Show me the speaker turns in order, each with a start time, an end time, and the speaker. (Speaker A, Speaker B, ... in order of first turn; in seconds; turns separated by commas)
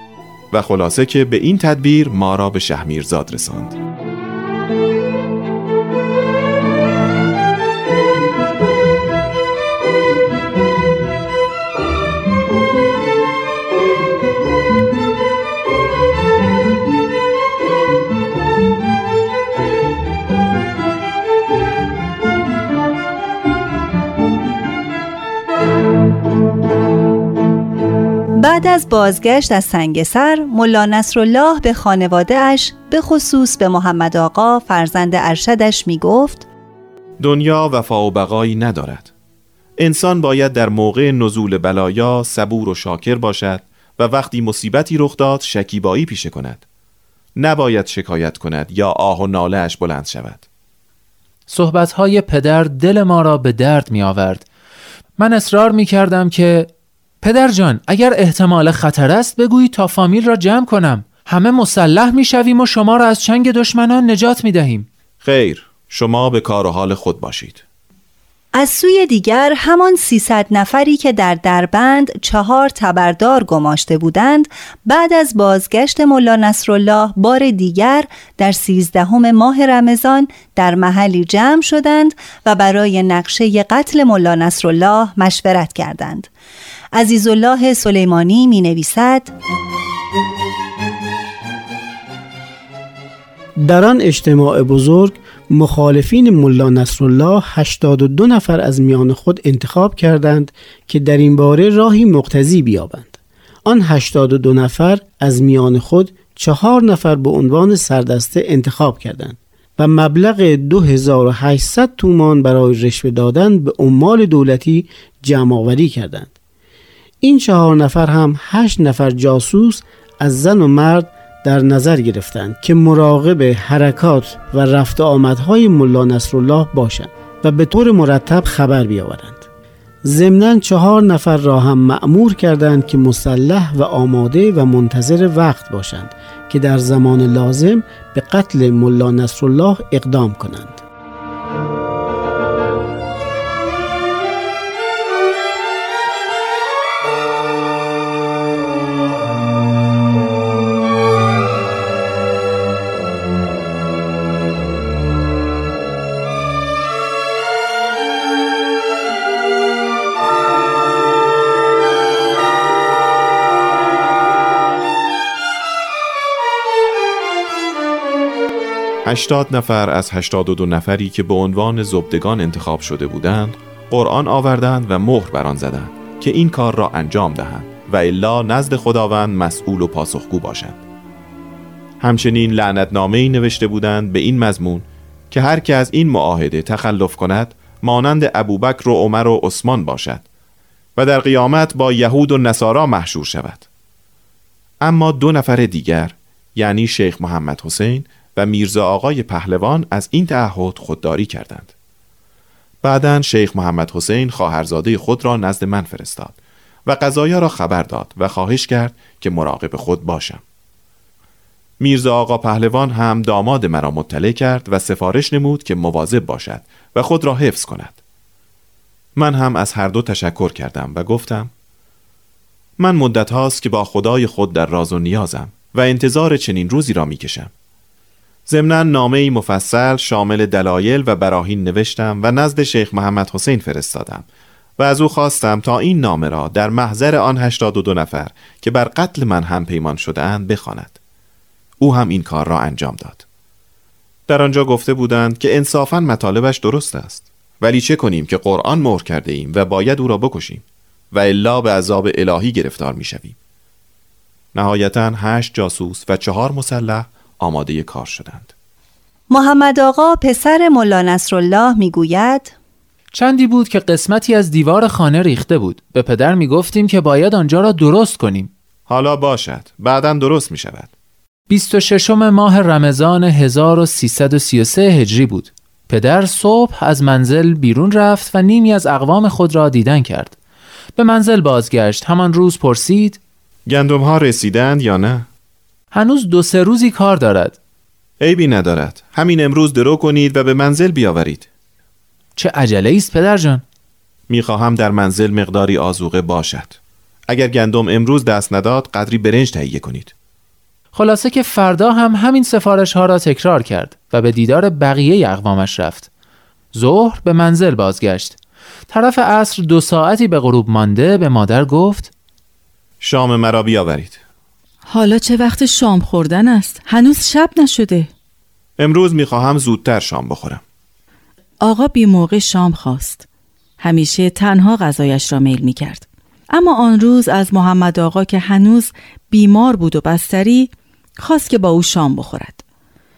Speaker A: 0.5-3.8, Speaker B: 28.4-36.5, Speaker A: 37.2-39.1, Speaker A: 39.8-46.6, Speaker A: 47.4-50.4, Speaker C: 51.5-54.4, Speaker C: 55.2-56.7, Speaker C: 57.2-64.9, Speaker A: 65.2-67.6, Speaker B: 68.5-86.3, Speaker B: 86.9-89.3, Speaker D: 93.6-103.1, Speaker D: 103.7-116.3, Speaker D: 117.2-129.4, Speaker D: 130.1-140.8, Speaker A: 169.1-180.8, Speaker A: 182.0-190.2, Speaker A: 191.0-193.7, Speaker A: 194.8-201.7, Speaker A: 202.8-210.4, Speaker A: 211.8-218.0, Speaker A: 219.2-221.5, Speaker A: 222.8-227.5, Speaker A: 228.5-234.3, Speaker A: 234.8-241.0, Speaker A: 241.8-243.2, Speaker A: 244.3-253.3, Speaker A: 254.5-258.5, Speaker B: 259.3-262.5, Speaker C: 263.1-268.5, Speaker A: 268.9-270.9, Speaker C: 271.5-280.4, Speaker C: 281.0-283.2, Speaker A: 283.7-285.3, Speaker C: 285.9-287.6, Speaker A: 288.2-291.5, Speaker C: 292.4-293.6, Speaker A: 294.3-296.8, Speaker A: 297.3-300.1, Speaker C: 300.9-306.1, Speaker C: 306.7-308.4, Speaker C: 308.9-312.1, Speaker A: 313.0-314.2, Speaker E: 314.9-318.1, Speaker A: 318.8-320.6, Speaker E: 321.6-323.3, Speaker E: 323.8-332.6